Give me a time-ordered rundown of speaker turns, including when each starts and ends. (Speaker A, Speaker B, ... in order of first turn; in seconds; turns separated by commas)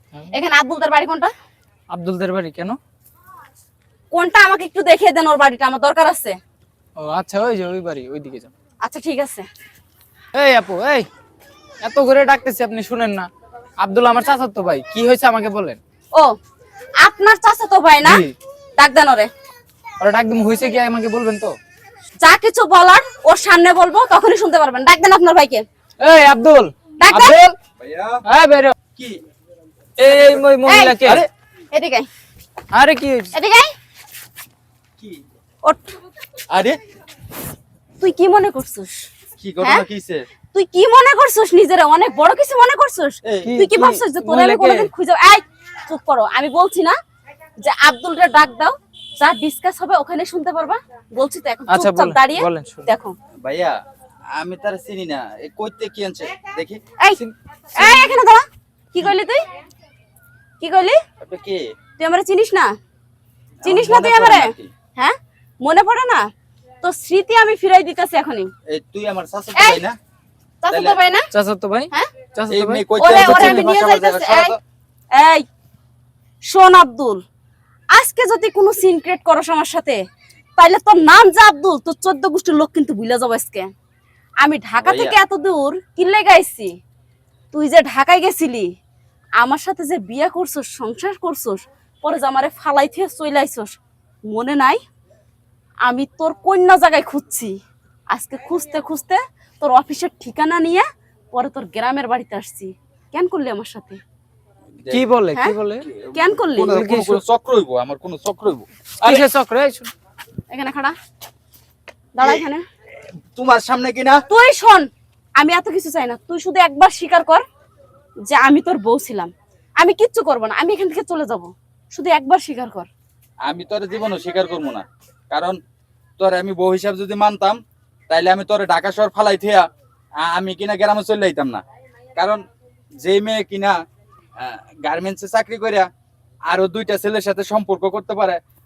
Speaker A: 0.3-1.3, Speaker B: 1.9-2.8, Speaker A: 4.1-6.4, Speaker B: 7.0-8.5, Speaker A: 8.8-9.5, Speaker B: 10.3-11.1, Speaker B: 11.8-13.3, Speaker B: 13.8-15.8, Speaker A: 17.0-18.3, Speaker B: 18.0-18.3, Speaker A: 18.8-19.3, Speaker B: 20.0-21.6, Speaker A: 22.2-25.6, Speaker B: 26.0-27.5, Speaker A: 27.0-27.5, Speaker C: 27.8-28.2, Speaker B: 28.3-28.7, Speaker B: 30.0-31.2, Speaker A: 30.6-31.0, Speaker C: 31.0-31.3, Speaker A: 31.7-32.1, Speaker B: 32.7-33.3, Speaker A: 33.3-33.7, Speaker A: 35.6-35.9, Speaker C: 36.5-36.8, Speaker A: 38.0-39.1, Speaker C: 39.4-40.3, Speaker A: 40.5-47.0, Speaker C: 43.2-43.6, Speaker B: 43.5-44.9, Speaker A: 47.6-53.1, Speaker B: 51.7-52.9, Speaker C: 53.4-53.8, Speaker C: 54.3-56.8, Speaker B: 57.2-58.1, Speaker A: 57.8-59.4, Speaker A: 60.6-61.0, Speaker C: 61.2-61.7, Speaker A: 62.0-62.7, Speaker C: 63.6-64.7, Speaker A: 63.6-66.3, Speaker A: 66.8-68.5, Speaker C: 68.7-70.0, Speaker A: 69.5-69.8, Speaker A: 70.6-71.3, Speaker C: 70.7-71.0, Speaker B: 71.3-73.7, Speaker C: 72.5-74.6, Speaker A: 73.0-74.6, Speaker A: 75.1-75.5, Speaker A: 76.5-77.2, Speaker A: 77.9-80.0, Speaker A: 80.6-83.7, Speaker A: 84.4-86.7, Speaker C: 84.8-85.2, Speaker A: 87.5-88.7, Speaker A: 89.4-94.8, Speaker A: 95.8-97.5, Speaker A: 98.1-104.0, Speaker B: 104.9-105.9, Speaker C: 105.8-109.3, Speaker A: 106.1-106.7, Speaker B: 106.6-107.2, Speaker B: 109.0-109.9, Speaker A: 110.5-110.9, Speaker A: 112.2-112.6, Speaker C: 113.3-114.2, Speaker A: 114.3-117.4, Speaker A: 118.3-122.9, Speaker C: 123.5-125.6, Speaker C: 126.2-129.7, Speaker C: 130.2-131.6, Speaker C: 133.0-133.8, Speaker C: 134.4-135.9, Speaker C: 136.5-138.4